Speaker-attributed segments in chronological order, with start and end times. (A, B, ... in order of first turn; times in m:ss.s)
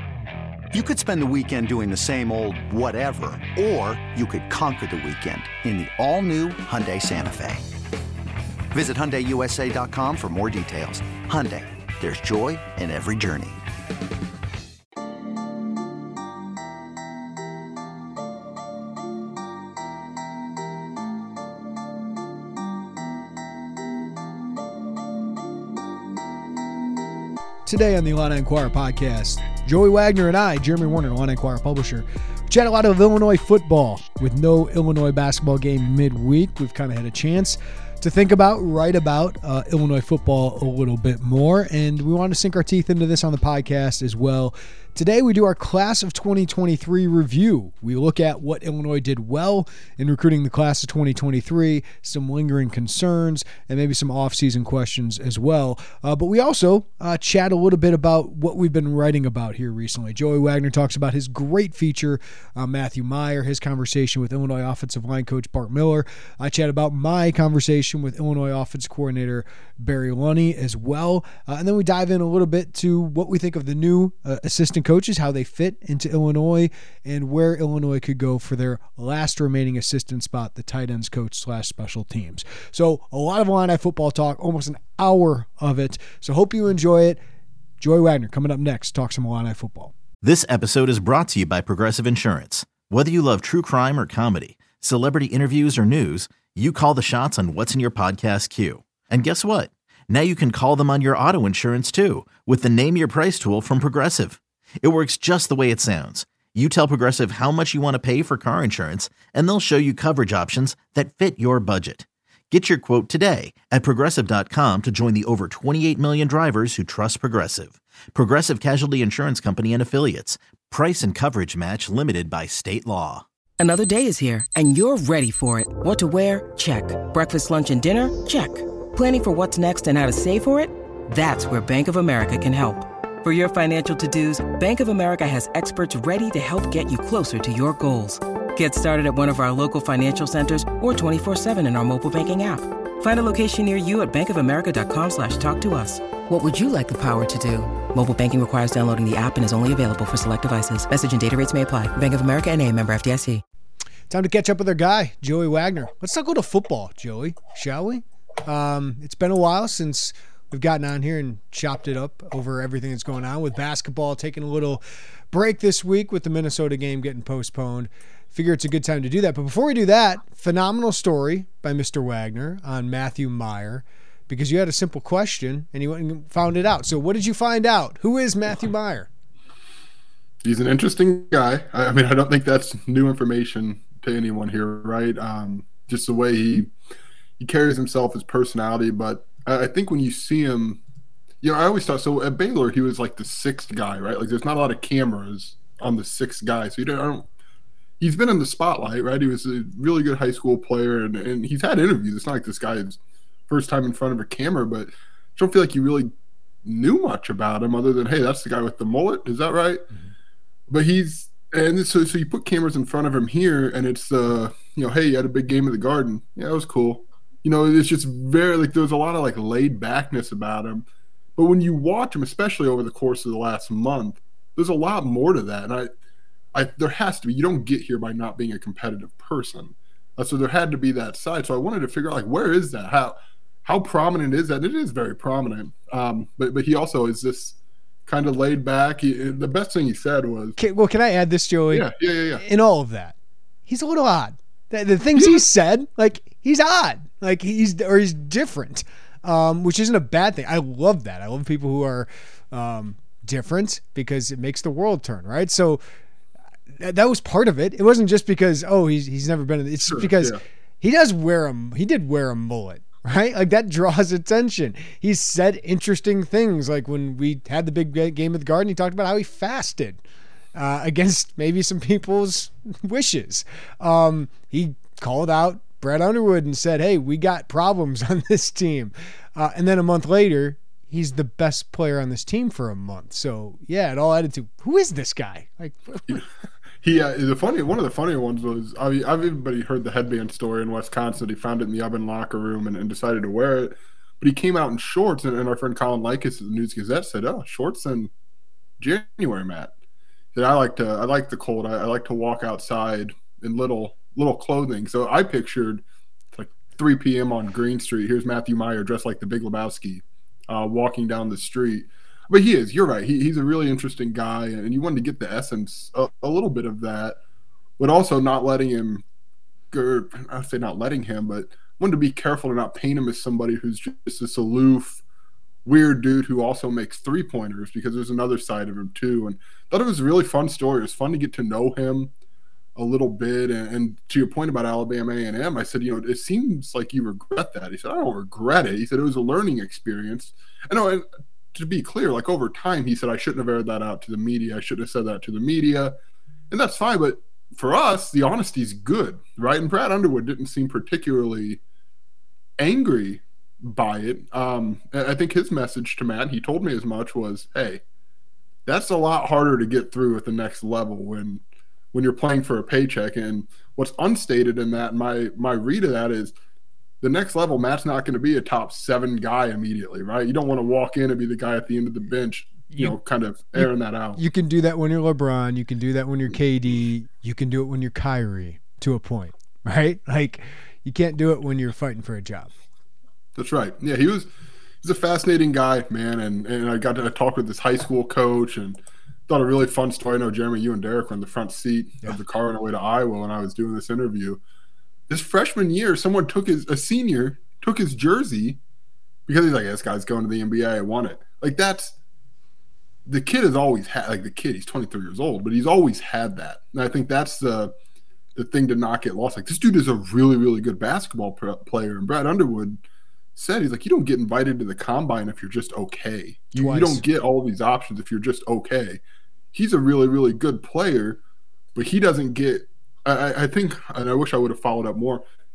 0:00.7-0:07.7 A
0:08.7-0:13.6 A
0:27.6-1:27.2 B
1:27.8-1:29.9 B
1:30.2-2:03.2 C
2:03.6-2:33.4 D
2:34.1-2:59.1 B
3:00.4-3:06.7 E
3:07.4-3:10.8 E
3:11.4-3:17.2 E
3:18.0-3:26.1 E
3:26.6-3:29.9 E
3:30.7-3:40.8 E
3:41.4-3:45.9 E
3:46.5-4:00.6 E
4:00.6-4:01.9 B
4:01.7-4:02.4 E
4:02.4-4:03.2 B
4:03.7-4:15.8 B
4:05.2-4:05.4 E
4:16.8-4:30.0 B
4:19.8-4:20.4 E
4:30.5-4:46.2 B
4:46.8-4:58.1 E
4:58.8-4:59.7 E
5:00.3-5:05.8 E
5:06.3-5:17.2 E
5:17.8-5:19.0 E
5:19.7-5:25.0 E
5:25.6-5:32.1 E
5:32.8-5:45.9 E
5:46.5-5:51.6 E
5:52.6-5:57.8 E
5:58.6-6:01.4 E
6:01.9-6:06.3 E
6:07.0-6:14.2 E
6:13.6-6:22.5 B
6:23.4-6:24.3 E
6:24.8-6:34.4 E
6:35.1-6:38.6 E
6:39.3-6:42.0 E
6:43.1-6:47.7 E
6:48.4-6:52.8 E
6:53.4-6:59.0 E
6:56.6-6:57.0 B
6:59.5-7:01.2 E
7:01.7-7:05.2 E